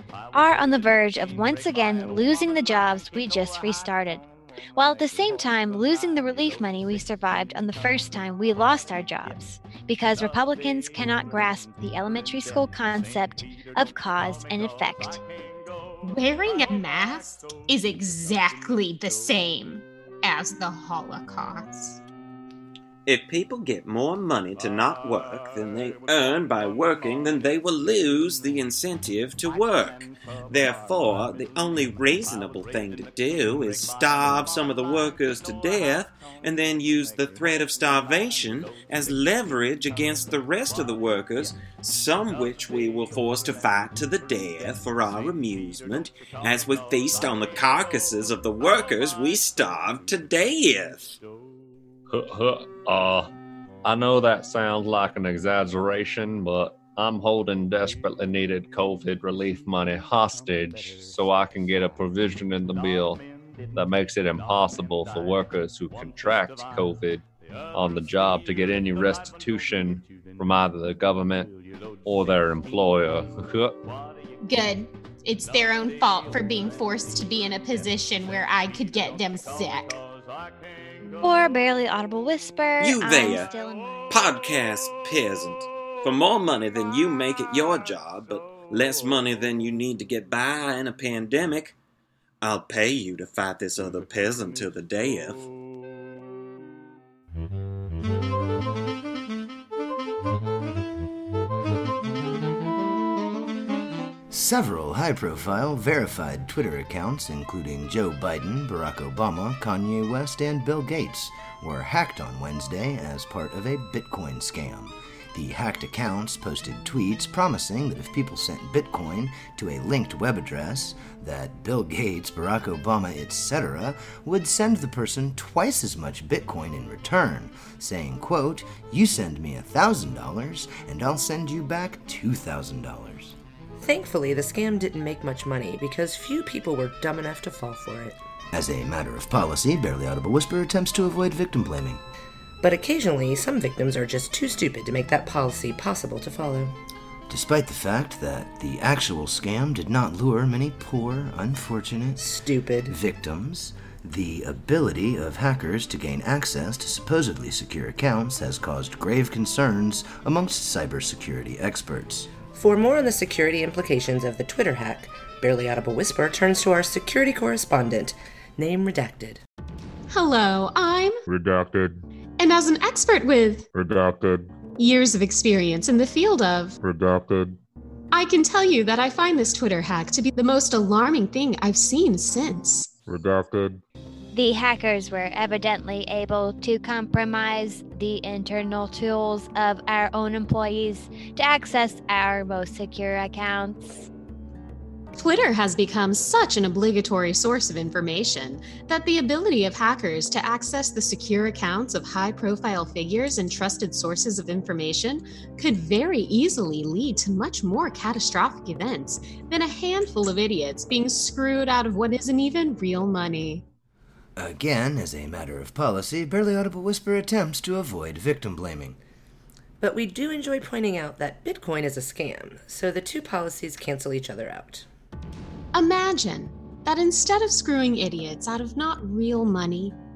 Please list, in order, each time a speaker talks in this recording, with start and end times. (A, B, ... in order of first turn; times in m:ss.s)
0:00.3-0:15.2 A
0:16.0-0:22.0 B
0:23.0-0:51.2 C
0:52.1-0:53.3 D
0:53.9-1:03.2 D
1:03.8-1:07.2 D
1:07.7-1:11.5 D
1:12.0-1:13.8 D
1:14.4-1:20.0 B
1:21.2-1:24.1 A
1:22.8-1:23.5 C
1:24.1-1:31.8 C
1:32.4-1:35.5 C
1:44.3-2:13.4 E
2:13.8-2:18.2 F
2:18.5-2:22.0 E
2:22.6-2:26.7 F
2:27.3-2:32.2 E
2:32.2-2:32.9 F
2:32.9-2:42.3 E
2:42.5-2:49.4 F
2:50.1-2:51.2 B
2:51.3-2:52.0 G
2:52.4-2:53.7 B
2:53.7-2:54.5 G
2:54.7-2:56.8 B
2:56.8-2:57.6 G
2:58.1-3:02.9 B
3:03.1-3:03.8 G
3:04.3-3:14.1 A
3:15.1-3:33.6 B
3:34.4-3:39.0 E
3:39.8-3:44.9 F
3:45.7-3:50.0 B